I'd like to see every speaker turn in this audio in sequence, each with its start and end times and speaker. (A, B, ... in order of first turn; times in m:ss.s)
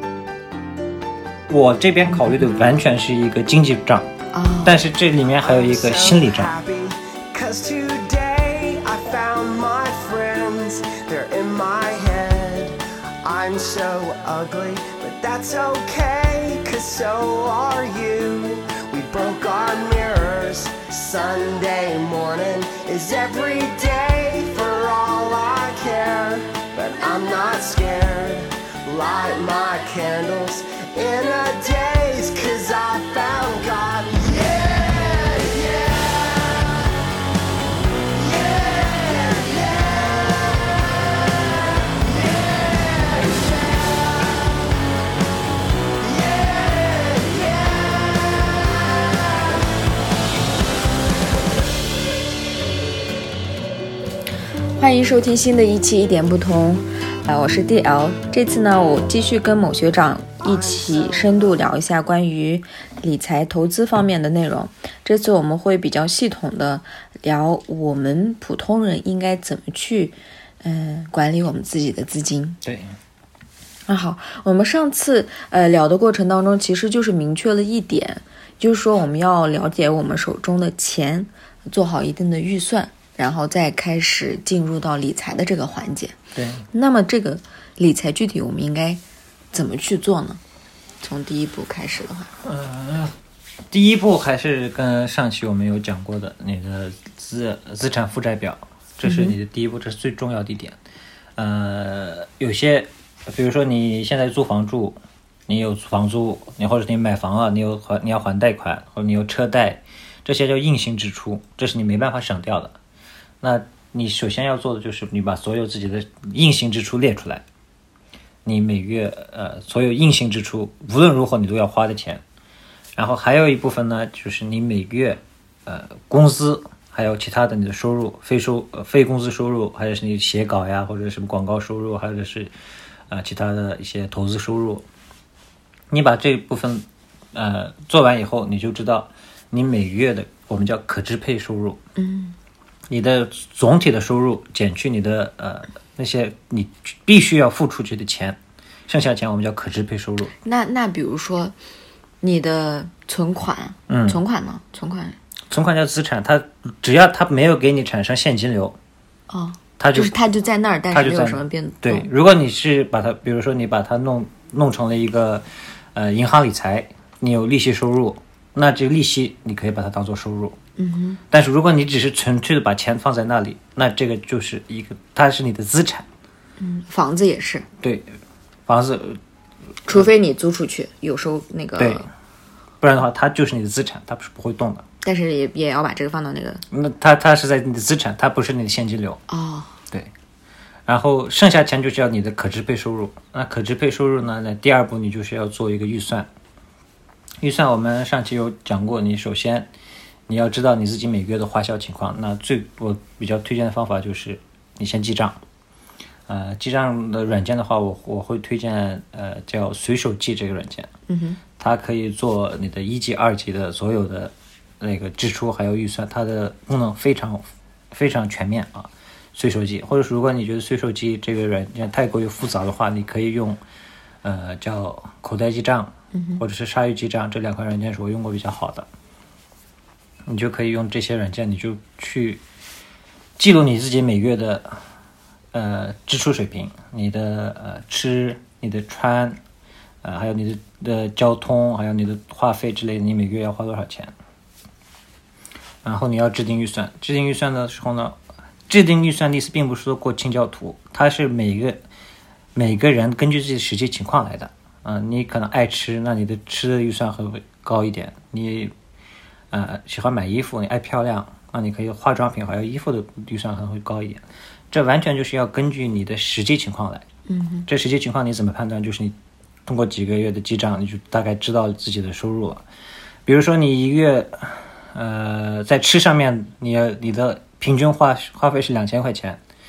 0:01.5-0:04.1 A
0:02.1-0:02.4 B
0:04.3-0:04.8 B
0:04.6-0:06.5 A
0:05.3-0:36.8 C
0:38.1-0:44.6 C
0:46.0-0:49.0 C
0:54.8-1:12.6 B
1:00.4-1:01.7 C
1:12.6-1:12.9 A
1:13.9-1:26.2 B
1:26.3-1:26.6 A
1:26.7-1:29.0 B
1:29.5-1:30.4 B
1:31.0-1:32.3 B
1:32.4-1:33.1 A
1:33.7-1:40.8 A
1:39.0-1:39.3 B
1:41.4-1:52.8 A
1:53.4-1:57.4 A
1:58.4-2:02.2 A
2:03.0-2:12.5 A
2:13.1-2:14.8 A
2:15.9-2:21.8 A
2:22.0-2:22.4 B
2:22.9-2:30.3 A
2:30.4-2:31.6 B
2:32.2-2:35.2 B
2:33.9-2:34.2 A
2:35.5-2:38.8 A
2:39.3-2:42.1 B
2:39.8-2:40.2 A
2:40.9-2:50.6 A
2:50.8-2:51.2 B
2:51.3-2:56.1 A
2:56.6-2:57.7 B
2:57.8-2:58.1 A
2:58.7-2:59.2 A
2:59.9-3:02.0 B
3:01.8-3:02.0 A
3:02.8-3:04.8 A
3:05.0-3:06.6 B
3:06.7-3:09.2 A
3:09.3-3:09.8 B
3:10.9-3:16.3 A
3:17.4-3:19.7 A
3:20.3-3:25.4 A
3:26.3-3:30.9 A
3:31.1-3:31.4 B
3:31.6-3:43.6 A
3:44.2-3:48.9 A
3:46.1-3:46.4 B
3:50.2-3:52.4 A
3:53.4-3:54.8 A
3:55.5-3:59.4 A
4:00.0-4:04.1 A
4:05.8-4:08.2 A
4:08.7-4:11.8 A
4:12.5-4:18.7 A
4:19.5-4:27.0 A
4:27.3-4:27.7 B
4:27.7-4:29.1 A
4:29.6-4:32.6 A
4:33.2-4:39.4 A